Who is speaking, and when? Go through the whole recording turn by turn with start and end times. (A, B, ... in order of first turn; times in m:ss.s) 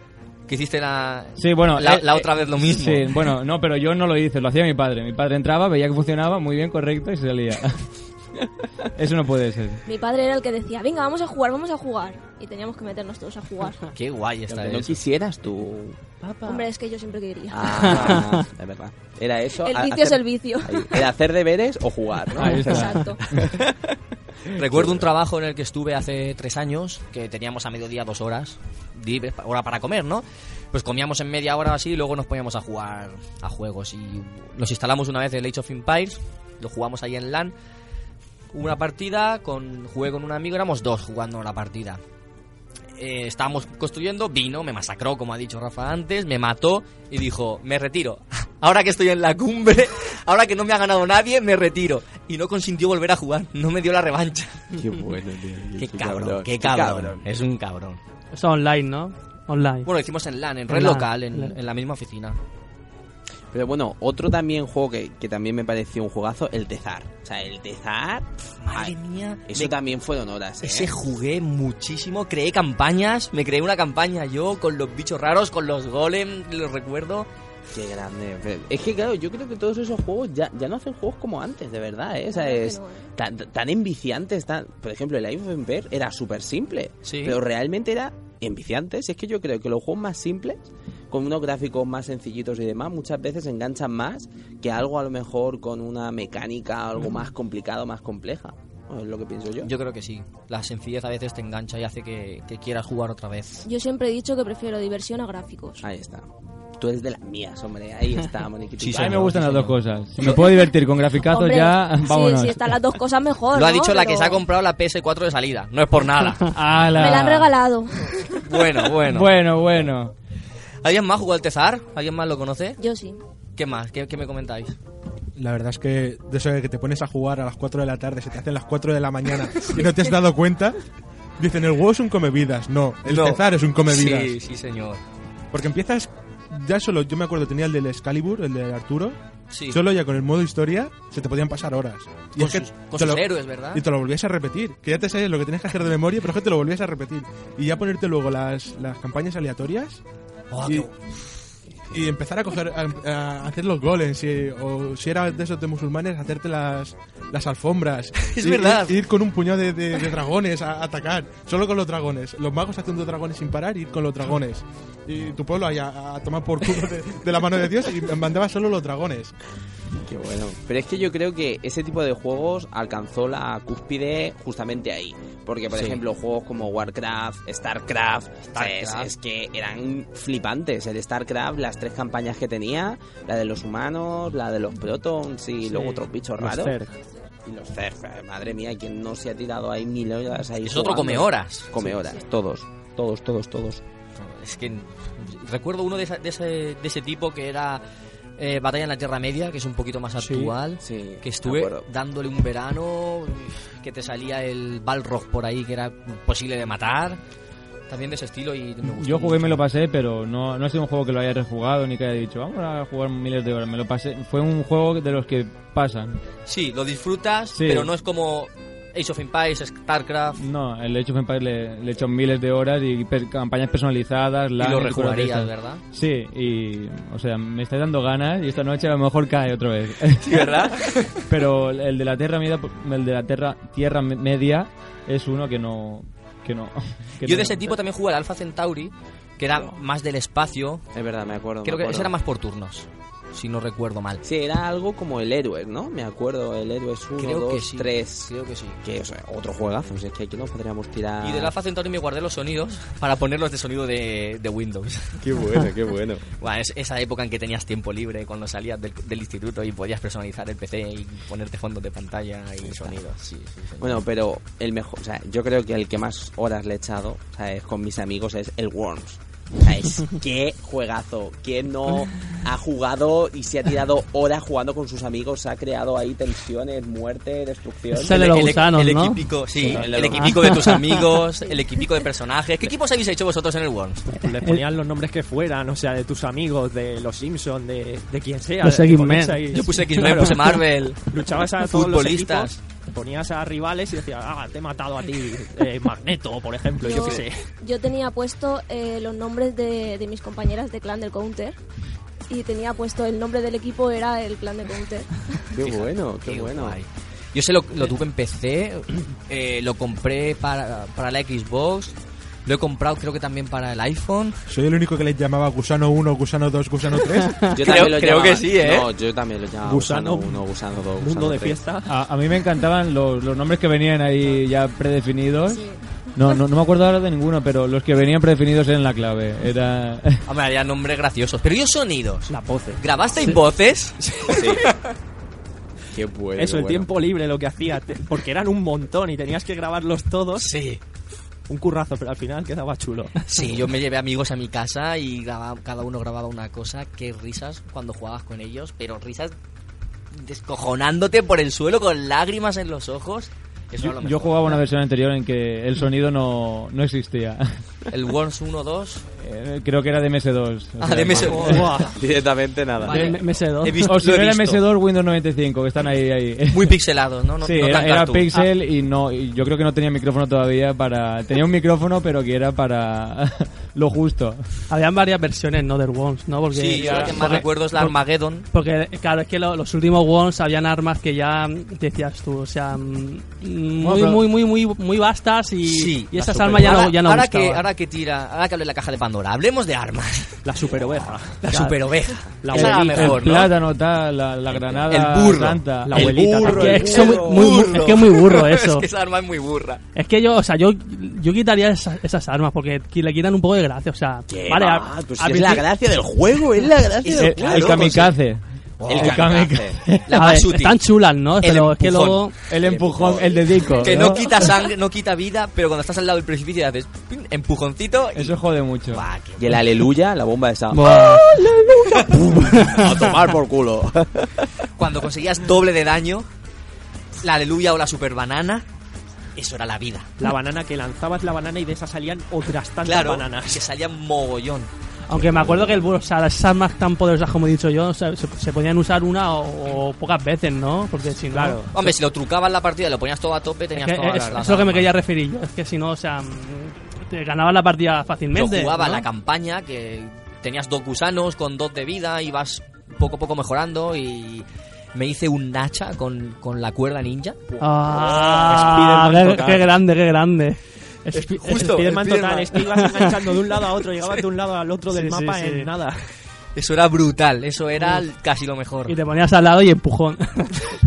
0:00.5-0:03.2 A
0:01.4-0:07.9 B
0:08.9-0:09.8 B
0:09.9-0:13.9 C
0:13.9-0:15.0 A
0:14.5-0:16.7 D
0:16.4-0:18.2 C
0:17.5-0:25.1 D
0:18.1-0:18.4 E
0:19.6-0:21.1 C
0:22.4-0:23.5 B
0:22.4-0:23.2 C
0:24.5-0:37.5 A
0:38.5-0:42.0 A
0:43.0-0:54.6 A
0:54.7-0:57.2 D
0:55.8-0:58.0 A
0:58.3-0:59.9 E
0:59.8-1:02.4 A
1:00.7-1:01.6 E
1:03.5-1:09.0 D
1:08.6-1:09.7 A
1:09.5-1:11.0 D
1:10.6-1:17.3 A
1:17.7-1:39.7 D
1:22.3-1:23.1 C
1:27.0-1:27.4 A
1:39.6-1:43.6 A
1:43.6-1:45.8 C
1:45.8-1:49.3 D
1:48.8-1:49.8 A
1:48.9-1:52.8 B
1:51.2-1:54.4 C
1:53.5-1:56.5 A
1:56.5-1:57.5 B
1:56.9-1:58.5 C
1:58.4-1:59.3 A
1:59.1-2:00.1 B
2:00.8-2:02.8 A
2:02.8-2:03.2 C
2:03.6-2:04.8 A
2:05.4-2:10.8 F
2:11.4-2:14.4 F
2:13.1-2:15.0 A
2:15.5-2:19.2 F
2:19.5-2:19.8 A
2:19.7-2:30.0 F
2:22.4-2:23.8 A
2:30.5-2:31.0 A
2:30.6-2:30.9 F
2:31.9-2:49.3 F
2:38.2-2:39.0 A
2:50.0-3:06.8 D
2:55.7-2:56.0 A
2:58.5-2:59.1 A
3:05.6-3:06.9 G
3:07.4-3:13.8 D
3:10.6-3:11.8 A
3:14.2-3:17.8 A
3:18.4-3:27.2 A
3:20.2-3:20.5 B
3:20.8-3:21.9 D
3:27.9-3:29.6 A
3:28.8-3:36.2 B
3:36.5-3:40.4 A
3:37.5-3:37.9 B
3:40.4-3:50.7 B
3:44.6-3:45.8 A
3:50.2-3:51.2 A
3:51.3-3:57.8 B
3:57.2-4:00.8 A
4:00.9-4:02.1 D
4:01.6-4:04.2 A
4:04.2-4:08.3 D
4:07.2-4:08.8 A
4:08.8-4:11.5 D
4:11.2-4:15.2 A
4:15.2-4:16.3 D
4:16.4-4:24.0 A
4:22.6-4:23.0 D
4:23.8-4:38.4 D
4:37.9-4:41.0 E
4:38.1-4:44.1 A
4:39.6-4:40.7 D
4:44.1-4:50.3 G
4:44.3-4:44.6 E
4:48.6-4:50.6 E
4:49.5-4:52.6 A
4:51.1-4:57.5 G
4:56.8-5:01.6 C
4:56.9-4:57.2 A
5:02.3-5:05.4 C
5:05.5-5:06.8 D
5:05.6-5:14.4 A
5:14.5-5:17.5 F
5:17.1-5:17.6 E
5:17.5-5:21.6 D
5:17.6-5:18.9 A
5:19.6-5:20.4 G
5:21.0-5:21.9 G
5:21.9-5:30.2 B
5:25.6-5:25.8 C
5:30.3-5:34.7 A
5:32.3-5:32.8 G
5:34.3-5:34.6 D
5:35.9-5:36.9 D
5:36.4-5:40.5 G
5:40.4-5:40.8 A
5:41.5-5:43.2 G
5:43.2-5:49.4 A
5:50.1-5:54.6 A
5:53.8-5:57.5 B
5:57.9-5:59.0 A
5:59.2-6:01.7 B
6:00.8-6:02.0 A
6:01.4-6:02.0 G
6:01.9-6:03.2 D
6:02.8-6:04.6 A
6:02.9-6:03.9 E
6:03.8-6:06.8 B
6:06.5-6:08.3 A
6:07.4-6:14.5 B
6:14.7-6:18.0 E
6:16.5-6:18.5 A
6:16.8-6:17.4 B
6:18.5-6:27.6 E
6:23.8-6:24.2 B
6:25.6-6:30.4 A
6:26.3-6:26.8 D
6:30.4-6:31.6 G
6:31.4-6:33.5 A
6:32.4-6:33.2 G
6:32.5-6:36.2 B
6:34.5-6:34.8 D
6:34.9-6:39.8 A
6:35.8-6:37.2 G
6:36.0-6:38.9 E
6:36.4-6:37.6 D
6:40.0-6:45.7 E
6:44.3-6:48.1 D
6:47.0-6:48.1 A
6:47.2-6:50.1 B
6:48.8-6:50.8 A
6:48.9-6:49.8 D
6:50.1-6:52.4 E
6:51.4-6:52.3 A
6:52.5-6:54.5 B
6:52.5-6:53.9 D
6:53.8-6:58.4 A
6:58.2-6:59.0 B
6:58.9-6:59.6 A
6:59.4-7:04.5 D
7:00.7-7:02.8 E
7:04.8-7:06.3 A
7:07.2-7:08.7 A
7:09.4-7:10.1 A
7:10.2-7:13.7 G
7:12.8-7:14.7 A
7:15.1-7:21.6 E
7:15.2-7:15.8 D
7:21.3-7:21.9 G
7:21.7-7:24.9 A
7:23.8-7:29.0 E
7:24.1-7:24.4 G
7:28.3-7:37.4 A
7:37.6-7:39.7 G
7:37.6-7:41.8 E
7:41.1-7:42.9 A
7:41.1-7:46.1 G
7:42.9-7:43.1 E
7:44.9-7:45.7 E
7:46.6-7:49.0 A
7:48.9-7:50.7 E